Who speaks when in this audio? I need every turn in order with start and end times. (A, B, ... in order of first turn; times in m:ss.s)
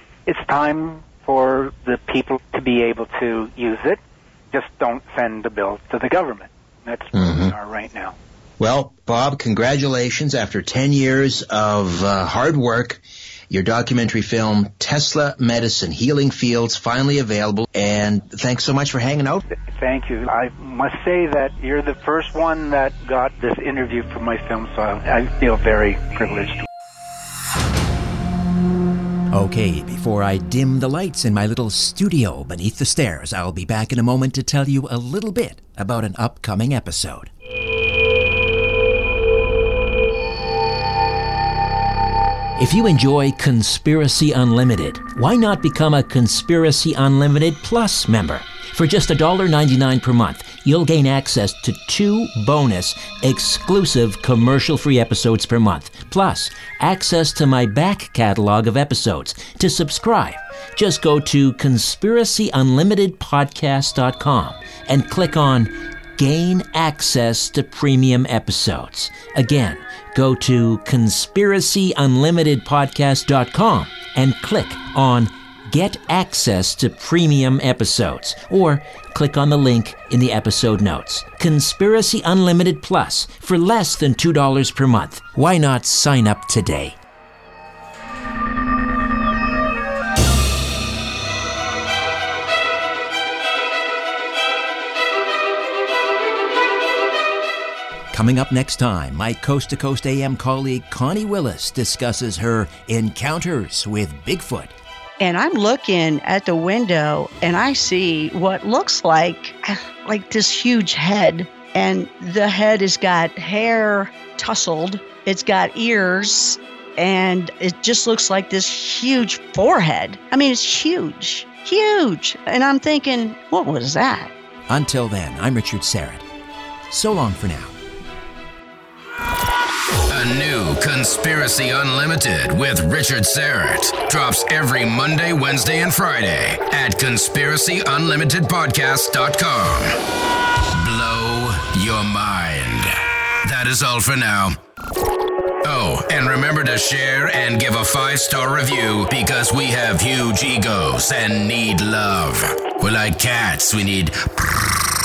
0:00.2-0:04.0 A
0:04.5-0:08.2 A
0:07.1-0:07.5 B
0:08.6-0:19.4 B
0:19.6-0:26.7 A
0:29.3-0:37.3 C
0:42.6-1:27.0 C
1:38.1-1:44.7 C
1:45.2-2:04.3 D
2:04.7-2:06.2 C
2:06.9-2:07.7 C
2:10.1-2:20.0 E
2:20.7-2:24.6 E
2:25.6-2:34.7 E